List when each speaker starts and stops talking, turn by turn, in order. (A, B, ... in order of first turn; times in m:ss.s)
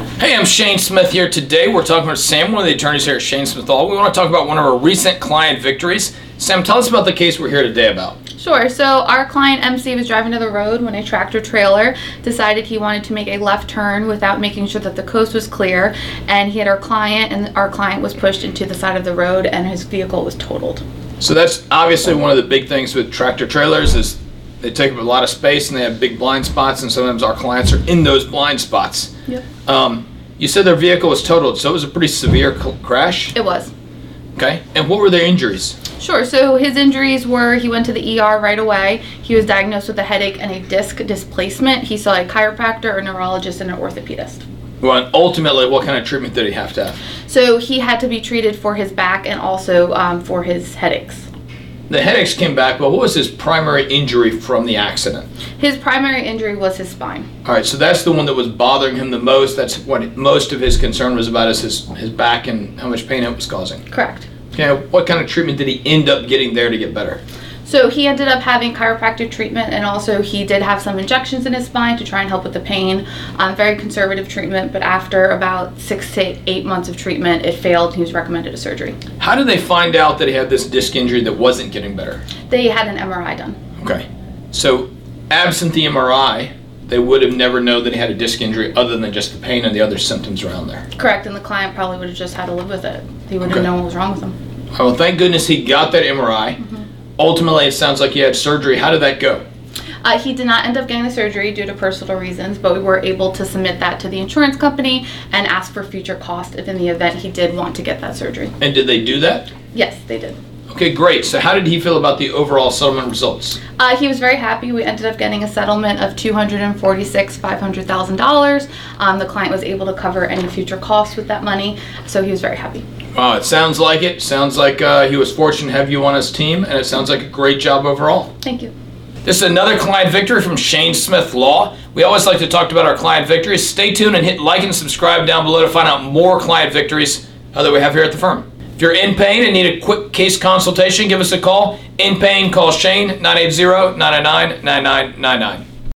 0:00.2-0:08.2 A
0:08.4-0:20.8 B
0:21.2-0:29.1 A
0:29.6-0:33.3 A
0:33.3-0:33.7 B
0:34.4-0:35.8 A
0:36.0-0:44.4 B
0:44.8-0:47.0 A
0:47.3-0:51.3 B
0:51.9-0:55.3 A
0:55.6-0:57.3 B
0:57.4-1:03.8 A
1:03.9-1:04.3 B
1:04.5-1:07.2 A
1:07.7-1:19.0 B
1:19.2-1:22.2 A
1:22.5-1:23.6 B
1:23.8-1:30.8 A
1:31.0-1:34.4 B
1:34.7-1:36.6 A
1:36.6-1:36.9 B
1:37.2-1:39.4 A
1:40.0-1:48.5 B
1:48.6-1:49.5 A
1:49.7-1:50.4 B
1:50.7-1:53.6 A
1:53.8-2:02.8 B
2:03.2-2:08.3 A
2:08.4-2:08.7 B
2:09.2-2:25.7 A